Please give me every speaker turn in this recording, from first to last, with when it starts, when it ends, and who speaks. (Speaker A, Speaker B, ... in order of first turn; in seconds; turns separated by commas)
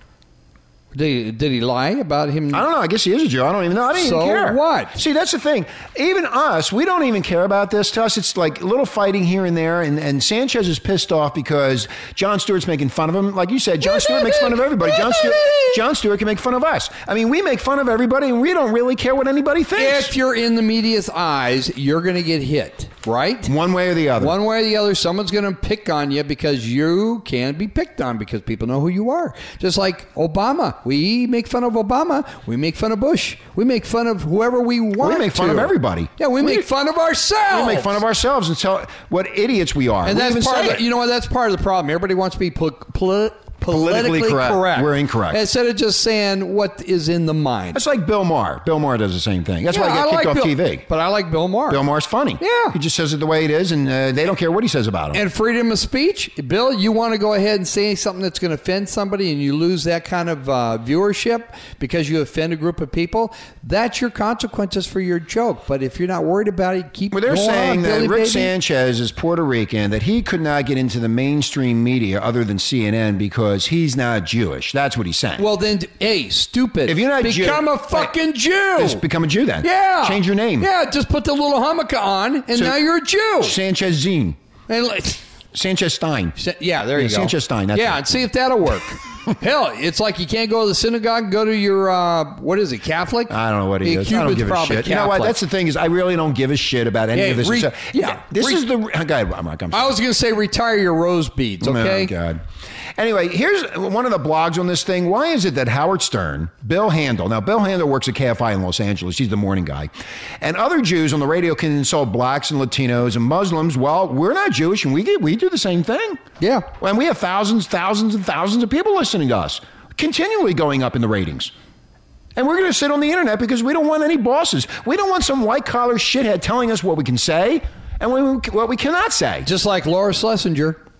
Speaker A: 0.9-2.6, Speaker B: 2.5-20.1, Speaker A: 3.9-5.0, Speaker A: 13.8-15.8, Speaker A: 19.7-23.5, Speaker B: 23.4-24.4, Speaker A: 24.2-38.0, Speaker B: 35.0-36.7, Speaker B: 37.5-40.8, Speaker A: 40.0-47.8, Speaker B: 43.7-45.4, Speaker B: 47.7-50.9, Speaker A: 49.7-51.8, Speaker B: 51.7-55.2, Speaker A: 52.4-52.8, Speaker A: 55.1-68.5, Speaker B: 67.1-75.5, Speaker A: 75.4-79.0, Speaker B: 76.8-78.1, Speaker B: 78.8-80.7, Speaker A: 79.6-83.6, Speaker B: 82.5-82.8, Speaker B: 83.4-84.4, Speaker A: 84.7-85.2, Speaker B: 85.5-86.4, Speaker A: 86.4-95.3, Speaker B: 86.9-88.1, Speaker B: 93.3-100.0, Speaker A: 97.1-98.6, Speaker A: 99.7-102.1, Speaker B: 101.6-102.4, Speaker B: 103.0-116.2, Speaker A: 116.4-116.7, Speaker B: 116.8-121.5, Speaker B: 122.3-129.5, Speaker A: 129.4-130.8